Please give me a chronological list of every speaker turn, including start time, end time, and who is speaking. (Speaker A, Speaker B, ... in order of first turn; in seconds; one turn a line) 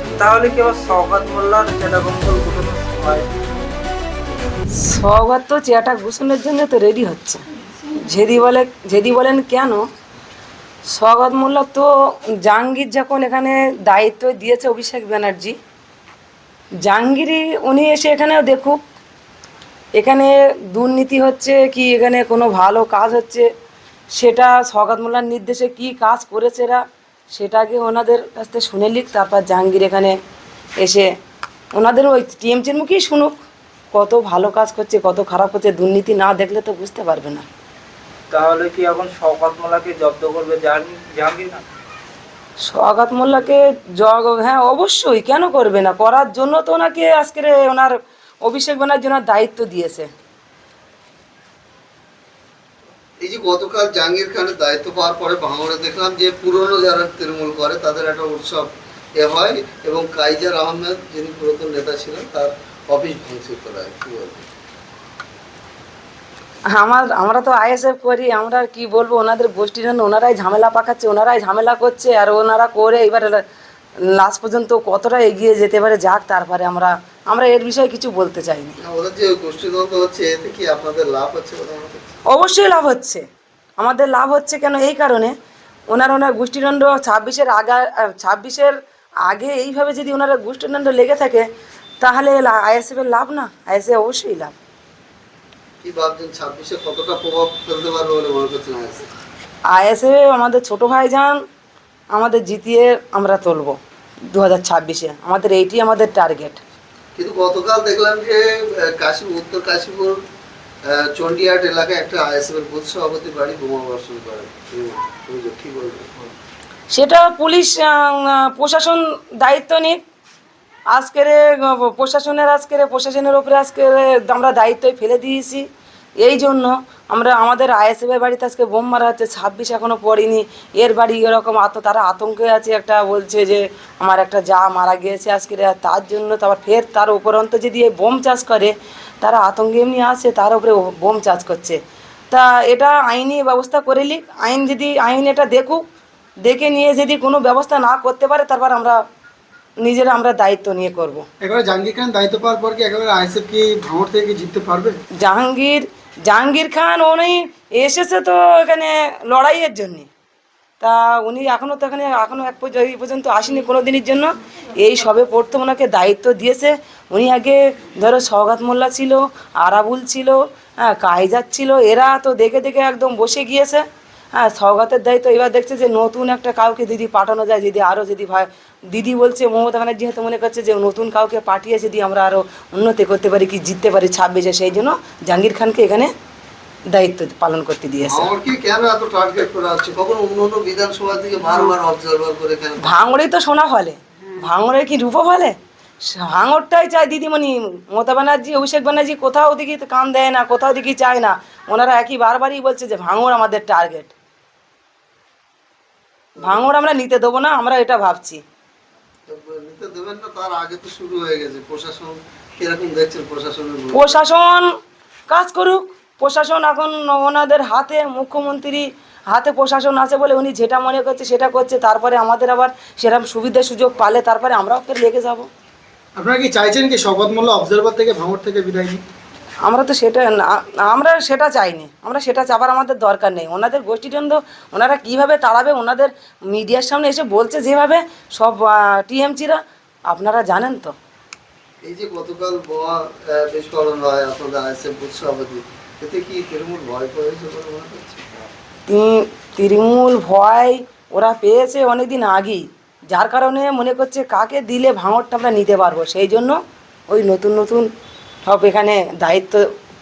Speaker A: 0.1-3.3
Speaker B: 4.7-9.8
Speaker B: 10.8-15.6
Speaker B: 16.8-18.8
Speaker B: 19.9-23.5
Speaker B: 24.1-30.2
Speaker B: 30.8-31.1
Speaker B: 31.7-33.3
Speaker B: 33.9-37.4
Speaker A: 38.3-41.6
Speaker B: 42.6-50.1
Speaker C: 53.2-64.5
Speaker B: 66.7-73.4
Speaker B: 74.0-78.8
Speaker C: 78.8-82.1
Speaker B: 82.3-83.2
Speaker B: 83.8-85.3
Speaker B: 85.9-88.7
Speaker B: 89.2-91.5
Speaker B: 92.0-94.5
Speaker C: 95.8-99.1
Speaker B: 99.7-101.4
Speaker B: 102.1-103.8
Speaker B: 104.3-106.6
Speaker C: 107.1-110.2
Speaker C: 110.8-116.3
Speaker B: 116.9-120.0
Speaker B: 120.9-125.7
Speaker B: 126.2-145.8
Speaker B: 146.4-149.0
Speaker B: 149.8-151.3
Speaker D: 151.4-155.0
Speaker B: 155.2-160.1
Speaker B: 160.8-173.8
Speaker B: 174.3-186.1
Speaker B: 186.9-188.3
Speaker C: 188.0-193.1
Speaker B: 192.8-204.1
Speaker C: 206.3-206.7
Speaker B: 206.4-208.4
Speaker C: 209.3-214.2
Speaker B: 213.9-214.7
Speaker B: 215.3-225.5
Speaker D: 226.2-229.0
Speaker B: 229.6-240.9
Speaker C: 241.8-248.5
Speaker B: 248.9-257.9
Speaker B: 258.4-259.7